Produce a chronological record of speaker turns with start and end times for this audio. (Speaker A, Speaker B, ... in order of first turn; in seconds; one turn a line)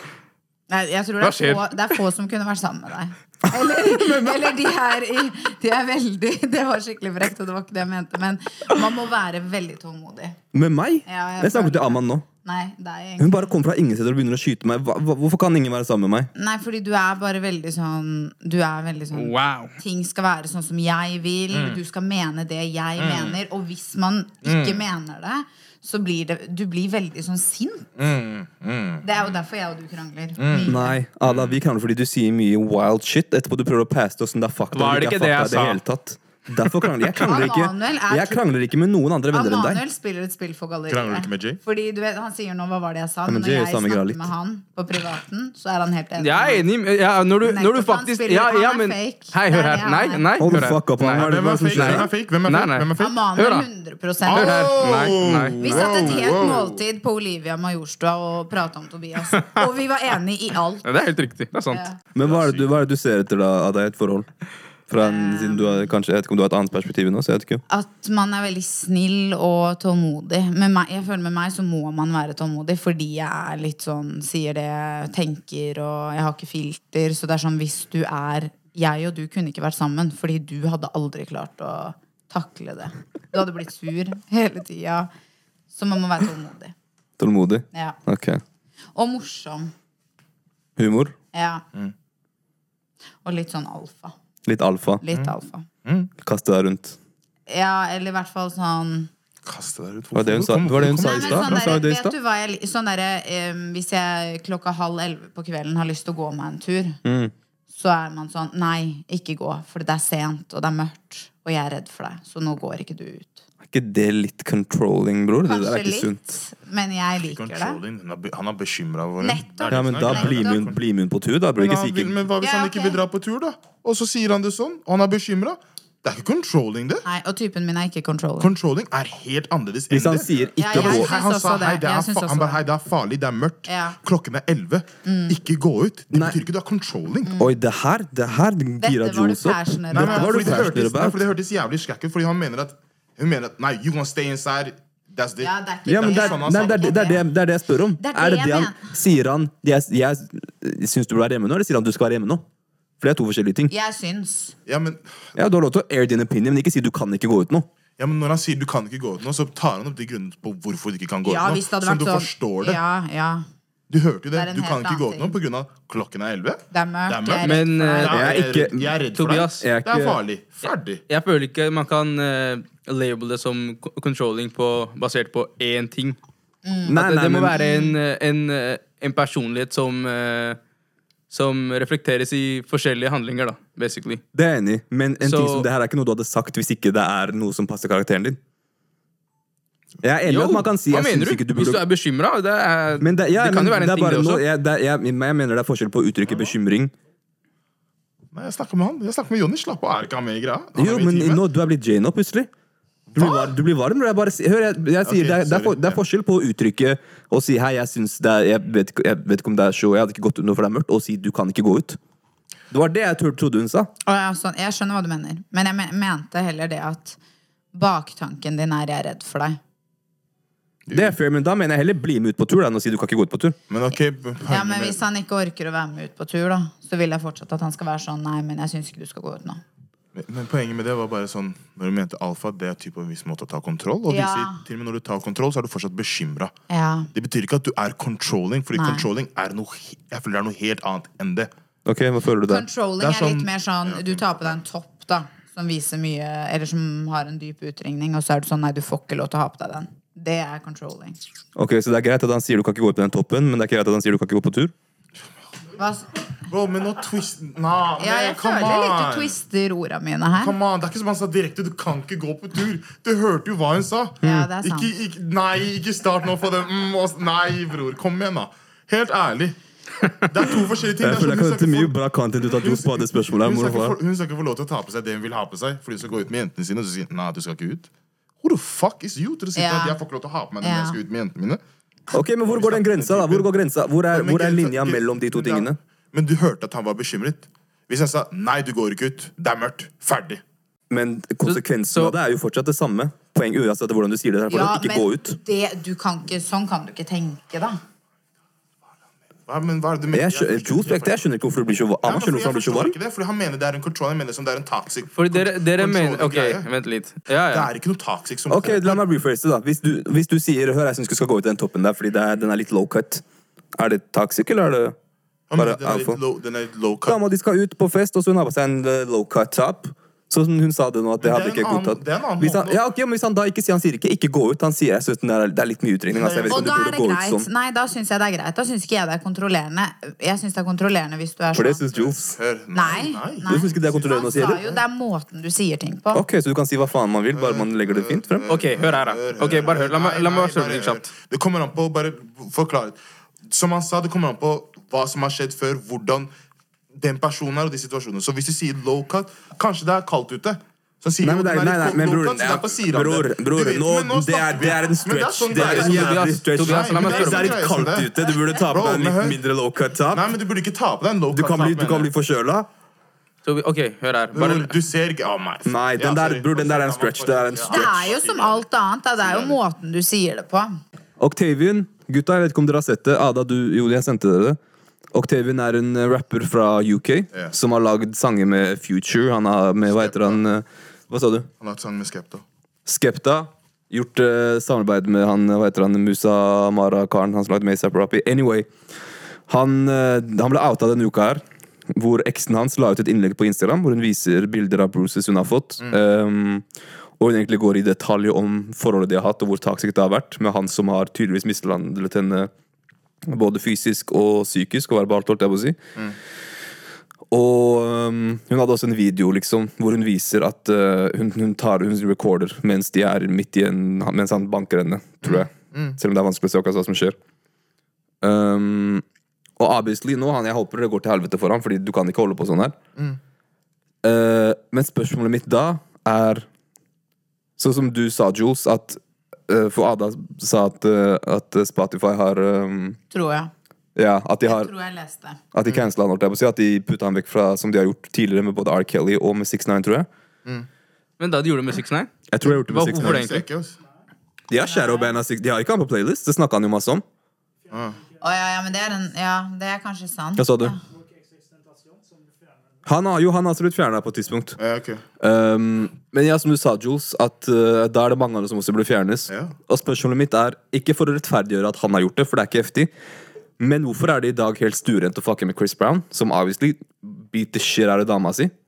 Speaker A: 0.7-10.4
Speaker B: 1.2-1.7
Speaker C: 3.9-4.4
Speaker C: 10.5-12.2
Speaker A: 11.1-13.5
Speaker C: 13.2-16.3
Speaker A: 16.3-27.9
Speaker B: 19.1-19.7
Speaker D: 21.5-21.8
Speaker D: 23.0-23.4
Speaker D: 24.4-24.8
Speaker D: 27.9-29.1
Speaker A: 29.0-31.0
Speaker D: 30.4-31.6
Speaker C: 30.6-39.8
Speaker B: 34.7-35.8
Speaker A: 37.2-38.5
Speaker A: 39.3-46.6
Speaker D: 40.9-41.6
Speaker C: 43.2-44.3
Speaker B: 46.2-53.7
Speaker A: 47.4-50.3
Speaker C: 50.4-52.1
Speaker D: 51.0-53.1
Speaker A: 53.0-54.8
Speaker D: 54.3-56.8
Speaker B: 54.3-56.3
Speaker A: 55.6-60.9
Speaker B: 59.3-59.6
Speaker B: 60.8-61.8
Speaker A: 61.7-62.0
Speaker C: 62.1-64.3
Speaker D: 62.2-62.7
Speaker C: 64.9-67.6
Speaker A: 65.0-65.9
Speaker A: 67.7-85.1
Speaker A: 85.7-86.7
Speaker C: 87.2-88.4
Speaker A: 87.7-88.0
Speaker A: 88.9-89.7
Speaker C: 90.8-91.1
Speaker A: 91.3-91.6
Speaker A: 93.2-94.1
Speaker C: 94.4-95.0
Speaker A: 95.0-95.7
Speaker D: 95.8-96.1
Speaker C: 96.2-97.0
Speaker A: 97.5-99.1
Speaker D: 99.5-101.8
Speaker C: 100.1-102.1
Speaker A: 101.0-107.0
Speaker C: 107.0-107.3
Speaker A: 107.7-113.4
Speaker C: 113.7-116.2
Speaker A: 115.4-117.8
Speaker D: 117.2-120.8
Speaker A: 119.2-120.6
Speaker C: 119.7-122.2
Speaker D: 121.5-127.0
Speaker A: 122.4-123.0
Speaker A: 127.0-128.5
Speaker D: 128.4-137.4
Speaker C: 129.9-131.1
Speaker A: 130.6-132.6
Speaker A: 133.7-134.0
Speaker A: 135.0-135.4
Speaker C: 136.1-136.4
Speaker A: 137.2-137.5
Speaker C: 137.4-141.2
Speaker A: 138.8-140.7
Speaker D: 139.9-147.2
Speaker A: 145.4-147.2
Speaker C: 145.8-152.4
Speaker A: 148.0-148.8
Speaker C: 153.0-153.7
Speaker A: 153.7-154.5
Speaker D: 154.7-155.3
Speaker C: 155.3-157.7
Speaker D: 158.0-162.8
Speaker A: 161.2-163.4
Speaker D: 163.9-171.0
Speaker A: 164.3-165.4
Speaker A: 166.7-168.1
Speaker B: 167.4-168.3
Speaker C: 168.1-169.0
Speaker B: 169.1-169.6
Speaker C: 169.6-170.2
Speaker B: 171.1-176.2
Speaker A: 176.6-177.0
Speaker C: 176.9-177.6
Speaker B: 176.9-180.6
Speaker A: 177.6-177.9
Speaker B: 181.3-184.2
Speaker C: 184.3-188.4
Speaker B: 185.2-185.7
Speaker C: 190.0-191.8
Speaker B: 190.2-194.4
Speaker C: 193.0-196.9
Speaker D: 198.3-201.4
Speaker C: 200.8-202.5
Speaker D: 203.1-203.5
Speaker C: 203.1-212.0
Speaker D: 205.0-206.0
Speaker C: 212.7-213.9
Speaker A: 214.0-217.2
Speaker A: 217.7-219.6
Speaker D: 220.8-221.1
Speaker C: 220.9-223.6
Speaker D: 223.7-225.0
Speaker A: 224.5-229.6
Speaker D: 230.1-236.5
Speaker A: 234.1-234.6
Speaker A: 236.7-237.1
Speaker D: 237.1-241.5
Speaker A: 238.7-239.1
Speaker C: 241.8-242.6
Speaker A: 242.4-251.2
Speaker D: 243.0-244.5
Speaker C: 251.6-254.7
Speaker A: 255.8-256.1
Speaker D: 256.5-259.3
Speaker A: 258.0-260.6
Speaker D: 260.3-269.6
Speaker C: 264.2-264.5
Speaker A: 264.2-264.9
Speaker D: 270.2-271.9
Speaker C: 271.0-274.0
Speaker D: 272.6-277.9
Speaker D: 278.4-281.6
Speaker A: 279.6-280.0
Speaker A: 280.6-281.0
Speaker C: 282.1-285.8
Speaker D: 282.4-283.5
Speaker D: 284.1-290.4
Speaker C: 290.9-295.4
Speaker B: 291.4-292.1
Speaker A: 294.5-297.8
Speaker D: 299.4-301.3
Speaker C: 300.1-302.9
Speaker D: 302.0-306.7
Speaker B: 305.1-307.7
Speaker D: 307.5-309.0
Speaker C: 308.5-313.2
Speaker C: 313.8-314.9
Speaker D: 315.5-317.2
Speaker C: 315.6-316.2
Speaker C: 317.1-327.5
Speaker D: 321.2-322.8
Speaker D: 326.1-326.8
Speaker A: 326.5-332.2
Speaker C: 331.5-332.4
Speaker D: 331.9-334.8
Speaker A: 332.7-336.2
Speaker C: 333.4-334.6
Speaker C: 336.1-338.5
Speaker D: 337.3-346.3
Speaker B: 338.5-341.1
Speaker D: 346.9-358.1
Speaker C: 351.2-360.3
Speaker B: 355.5-357.6
Speaker D: 358.7-359.4
Speaker D: 360.1-362.1
Speaker C: 361.3-362.7
Speaker B: 363.4-364.8
Speaker D: 364.3-368.6
Speaker C: 365.6-368.1
Speaker A: 367.7-370.7
Speaker D: 369.2-369.6
Speaker C: 371.2-374.6
Speaker C: 375.1-381.5
Speaker D: 379.9-380.4
Speaker D: 381.6-382.4
Speaker C: 382.8-388.7
Speaker C: 389.5-396.6
Speaker C: 397.2-402.5
Speaker C: 403.2-405.8
Speaker C: 407.3-417.1
Speaker D: 415.2-416.0
Speaker C: 418.2-419.0
Speaker C: 419.6-422.8
Speaker C: 424.0-426.5
Speaker C: 427.6-433.0
Speaker A: 433.1-433.5
Speaker C: 433.9-434.7
Speaker A: 434.4-435.4
Speaker C: 435.5-440.1
Speaker B: 441.2-442.1
Speaker C: 442.3-443.3
Speaker D: 442.5-443.8
Speaker B: 442.6-443.4
Speaker C: 444.5-447.0
Speaker A: 444.5-445.1
Speaker E: 447.6-449.1
Speaker D: 447.7-448.0
Speaker A: 448.2-450.8
Speaker C: 450.4-450.7
Speaker E: 450.7-452.9
Speaker C: 452.9-454.6
Speaker D: 454.6-455.0
Speaker C: 455.2-462.9
Speaker D: 459.3-459.5
Speaker C: 463.6-468.5